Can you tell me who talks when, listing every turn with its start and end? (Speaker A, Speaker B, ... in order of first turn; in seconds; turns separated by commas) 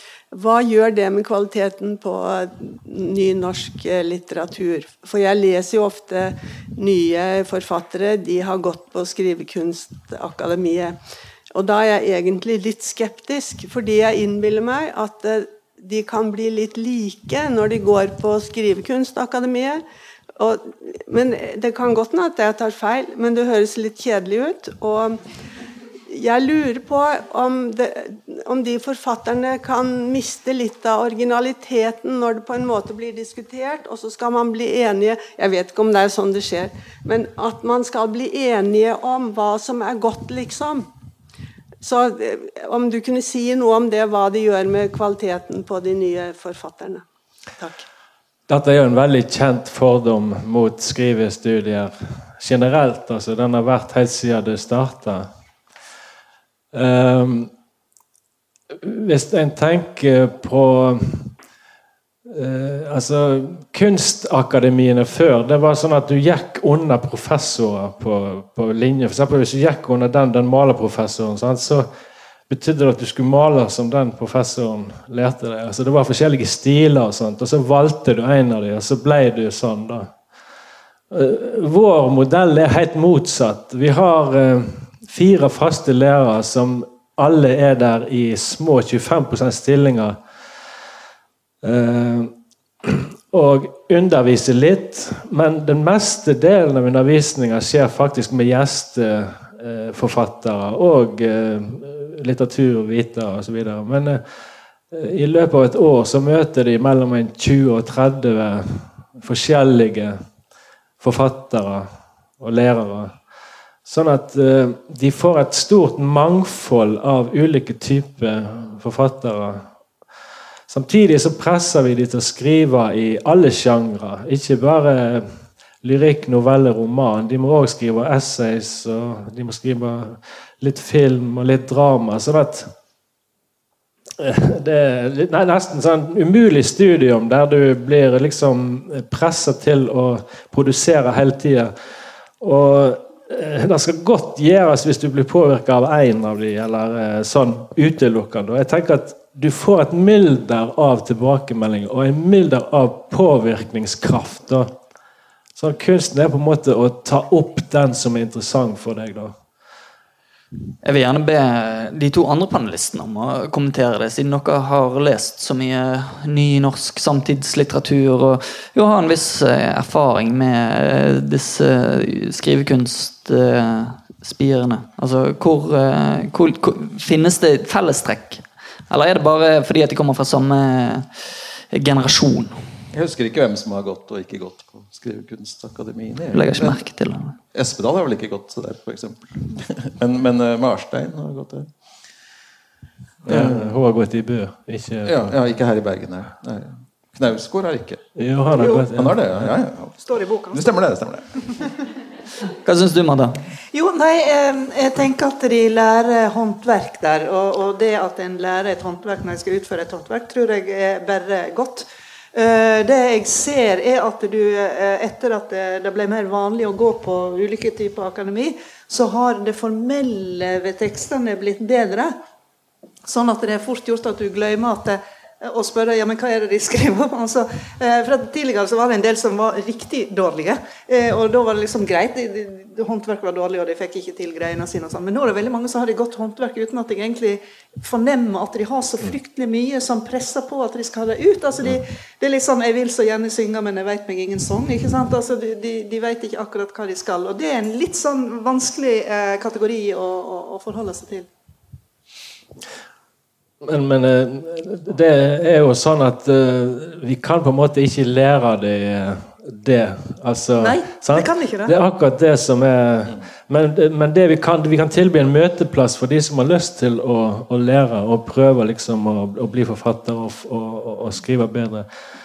Speaker A: 0.3-19.8, Speaker A: 20.4-25.2, Speaker A: 26.1-40.9, Speaker A: 41.8-47.0, Speaker B: 48.5-55.3, Speaker B: 56.7-57.5, Speaker B: 58.8-61.3, Speaker B: 62.3-71.9, Speaker B: 72.5-80.1, Speaker B: 81.1-90.2, Speaker B: 91.6-92.3, Speaker B: 92.8-104.2, Speaker B: 104.9-110.2, Speaker B: 111.0-111.9, Speaker B: 112.4-113.2, Speaker B: 113.9-119.7, Speaker B: 120.7-125.3, Speaker B: 125.8-132.7, Speaker B: 134.2-141.7, Speaker B: 142.4-154.7, Speaker B: 155.6-159.3, Speaker C: 160.8-182.6, Speaker D: 182.9-186.8, Speaker C: 186.3-187.3, Speaker D: 187.5-191.7, Speaker B: 193.3-195.3, Speaker D: 193.3-193.7, Speaker D: 195.1-198.0, Speaker B: 198.2-199.5, Speaker D: 198.6-200.0, Speaker E: 198.6-198.8, Speaker E: 200.0-200.8, Speaker D: 200.5-201.2, Speaker C: 202.6-203.4, Speaker E: 203.7-222.1, Speaker E: 223.1-251.3, Speaker B: 253.6-271.9, Speaker E: 260.6-261.7